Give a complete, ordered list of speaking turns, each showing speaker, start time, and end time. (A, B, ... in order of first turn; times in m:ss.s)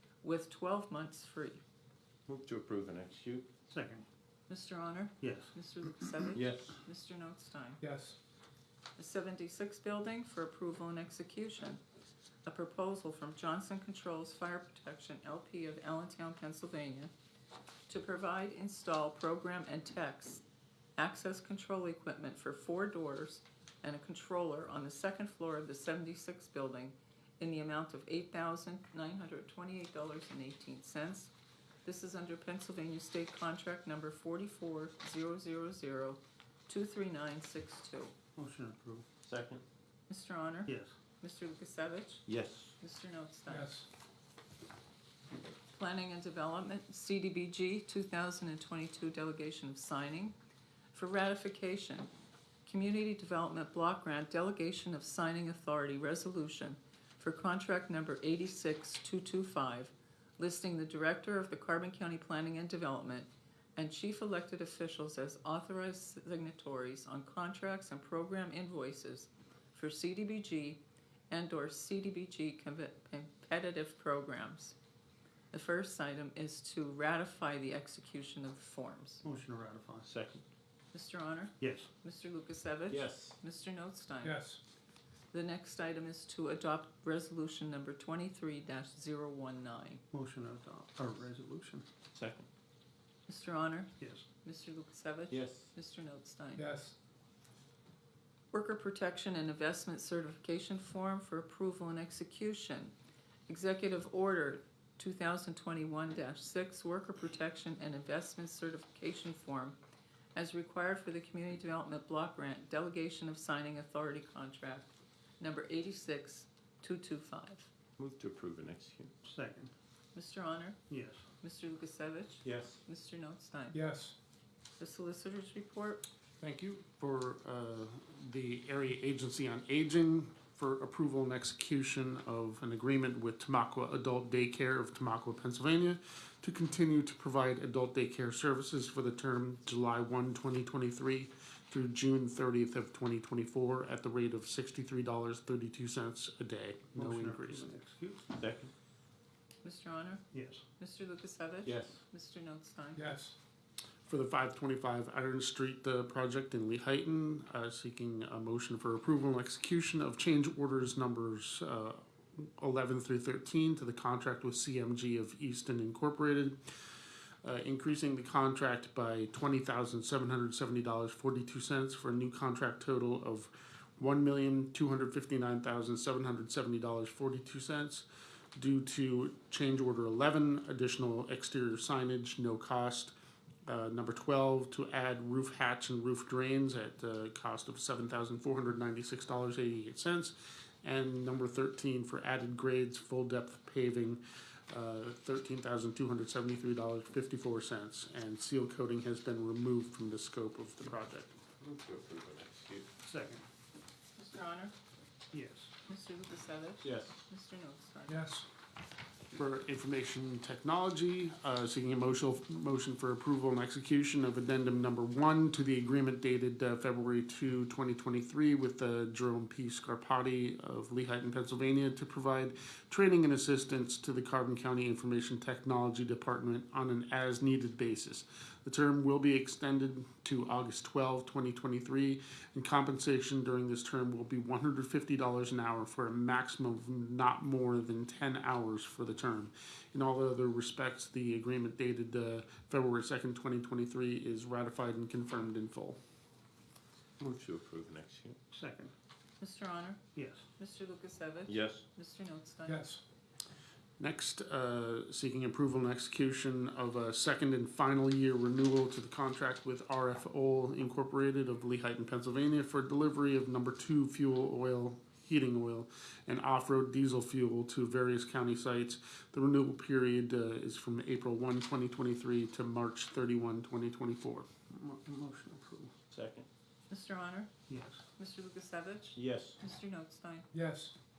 0:00.2-0:01.6 A
0:02.3-0:03.5 B
0:03.7-0:04.0 C
0:04.5-0:07.8 A
0:05.2-0:05.5 C
0:06.4-0:06.8 B
0:07.8-0:08.2 D
0:09.0-0:11.8 A
0:12.4-0:17.1 A
0:17.9-0:20.4 A
0:21.0-0:31.3 A
0:31.8-0:38.1 A
0:38.4-0:39.1 C
0:39.2-0:39.6 B
0:40.1-0:42.2 A
0:40.7-0:40.9 C
0:42.3-0:42.8 B
0:42.8-0:43.7 A
0:43.5-0:43.9 C
0:45.7-0:50.4 A
0:50.9-0:52.1 A
0:52.7-1:14.8 A
1:15.5-1:19.2 A
1:19.2-1:20.1 C
1:20.1-1:20.4 B
1:20.9-1:24.4 A
1:21.6-1:21.9 C
1:22.9-1:23.4 B
1:24.2-1:24.6 C
1:25.3-1:30.0 A
1:30.1-1:31.9 C
1:32.1-1:32.5 B
1:33.3-1:36.7 A
1:34.0-1:34.2 C
1:35.3-1:35.7 B
1:36.6-1:37.0 D
1:38.5-1:42.9 A
1:43.5-1:49.8 A
1:50.4-1:57.7 A
1:58.0-1:59.1 B
1:59.2-1:59.7 C
2:00.1-2:00.8 A
2:00.9-2:01.2 C
2:01.4-2:03.8 A
2:02.4-2:02.8 B
2:03.7-2:04.1 D
2:03.7-2:04.1 C
2:04.8-2:06.0 A
2:06.4-2:27.7 E
2:26.9-2:28.3 C
2:28.4-2:28.7 B
2:29.6-2:30.2 A
2:30.3-2:30.6 C
2:30.8-2:33.1 A
2:31.6-2:32.0 B
2:33.0-2:33.3 D
2:34.1-2:46.6 E
2:47.4-3:03.1 E
3:03.7-3:21.3 E
3:21.6-3:22.9 B
3:23.0-3:23.4 C
3:24.2-3:24.7 A
3:25.3-3:25.7 C
3:25.9-3:28.3 A
3:26.8-3:27.2 B
3:28.1-3:28.4 C
3:29.3-4:06.0 E
4:07.2-4:08.4 B
4:08.5-4:08.9 C
4:09.4-4:10.0 A
4:10.2-4:10.5 C
4:10.6-4:12.9 A
4:11.5-4:11.8 B
4:14.0-4:34.5 E
4:34.7-4:35.9 C
4:36.1-4:36.5 B
4:36.9-4:37.5 A
4:37.7-4:38.0 C
4:38.2-4:40.5 A
4:39.2-4:39.6 B
4:40.5-4:40.9 C
4:40.5-4:40.9 D